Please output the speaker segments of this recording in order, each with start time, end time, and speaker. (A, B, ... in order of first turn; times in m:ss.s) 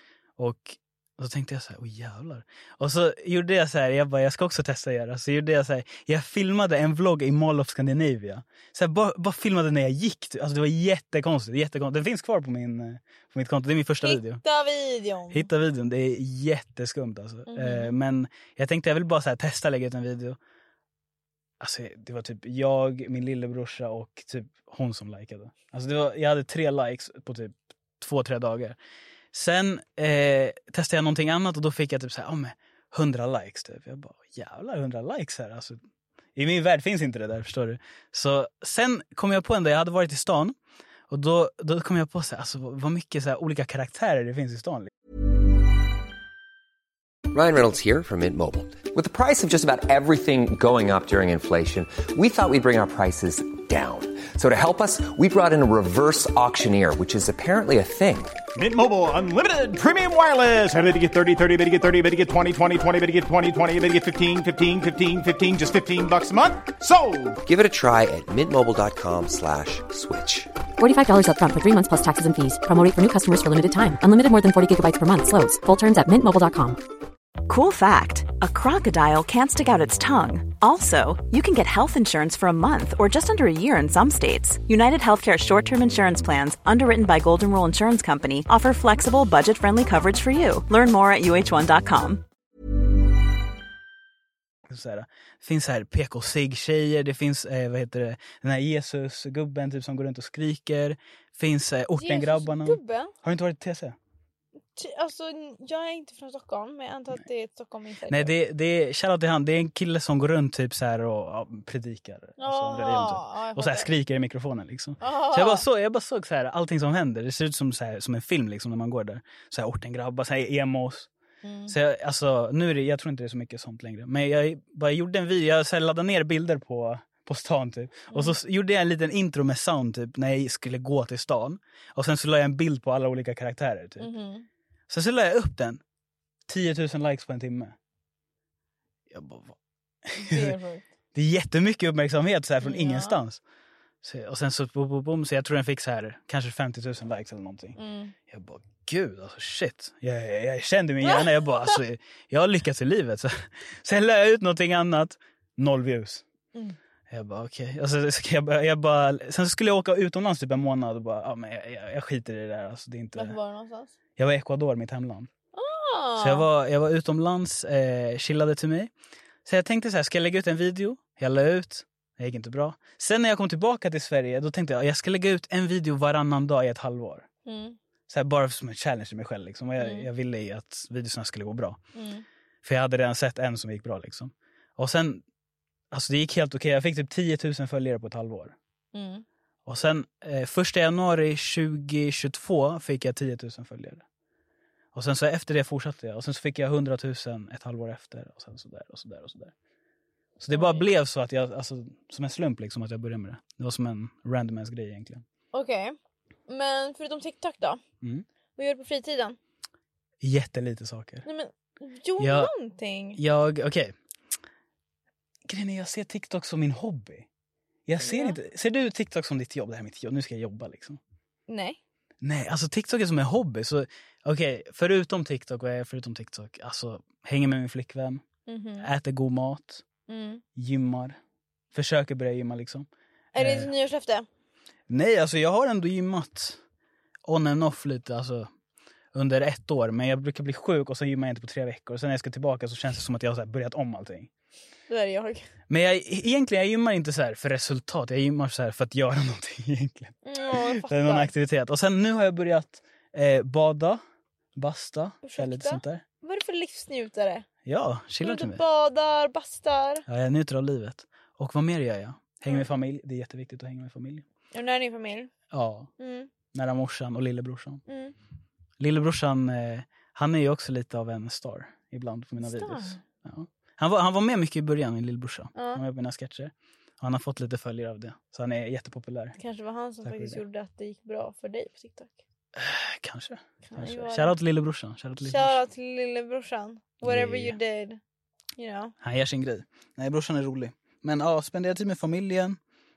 0:00.4-0:14.4 A
0:14.0-0:15.5 B
0:15.3-0:20.4 A
0:17.5-0:18.0 B
0:21.6-0:28.8 A
0:29.3-0:35.8 A
0:36.4-0:40.6 A
0:41.1-0:44.9 A
0:47.3-0:58.4 C
0:58.6-1:07.4 D
1:07.4-1:10.5 C
1:10.8-1:16.8 E
1:17.5-1:32.2 F
1:34.7-1:44.0 A
1:42.0-1:43.1 B
1:44.8-1:48.3 B
1:48.1-2:01.1 A
1:52.4-1:53.9 B
1:55.0-1:55.7 B
2:01.4-2:01.8 B
2:01.7-2:14.1 A
2:08.1-2:08.4 B
2:14.0-2:14.5 B
2:14.9-2:15.8 A
2:16.5-2:17.8 A
2:19.1-2:20.6 A
2:20.2-2:20.8 B
2:21.1-2:23.4 A
2:22.6-2:23.2 B
2:24.0-2:36.2 A
2:27.8-2:28.2 B
2:31.0-2:31.8 B
2:37.1-2:43.4 A
2:43.2-2:43.9 B
2:44.2-2:45.3 A
2:45.5-2:46.5 B
2:46.2-2:48.9 A
2:49.4-2:57.3 A
2:57.5-2:57.8 B
2:58.1-3:01.8 A
2:59.8-3:00.1 B
3:02.0-3:02.2 B
3:02.6-3:05.2 A
3:05.9-3:08.6 A
3:08.9-3:09.2 B
3:09.7-3:14.0 A
3:14.9-3:19.5 A
3:20.4-3:25.2 A
3:20.5-3:20.9 B
3:25.5-3:26.0 B
3:26.5-3:27.8 B
3:28.6-3:29.4 B
3:30.2-3:31.3 A
3:31.3-3:33.2 B
3:32.2-3:32.5 A
3:33.2-3:34.0 A
3:35.5-3:37.3 A
3:37.9-3:41.0 A
3:38.0-3:38.4 B
3:41.5-3:41.8 B
3:42.2-3:48.2 A
3:48.5-3:48.9 B
3:48.8-3:49.8 A
3:50.1-3:50.4 B
3:50.6-3:51.2 A
3:51.7-3:53.7 A
3:53.3-3:54.3 B
3:54.9-3:56.6 A
3:57.2-3:58.5 A
3:59.1-4:04.3 A
4:04.9-4:05.5 B
4:05.7-4:14.0 A
4:10.2-4:11.3 B
4:14.6-4:16.0 A
4:15.2-4:17.5 B
4:17.6-4:18.6 A
4:18.2-4:20.0 B
4:20.1-4:24.2 A
4:24.5-4:25.3 B
4:25.5-4:25.9 A
4:26.0-4:26.3 B
4:26.5-4:27.8 A
4:27.9-4:28.2 B
4:28.8-4:39.4 A
4:32.4-4:33.0 B
4:35.6-4:35.8 B
4:39.4-4:42.2 B
4:40.0-4:40.4 A
4:42.6-4:45.6 A
4:43.7-4:44.4 B
4:45.2-4:48.0 B
4:47.0-4:47.6 A
4:48.6-4:49.0 B
4:49.0-4:52.6 A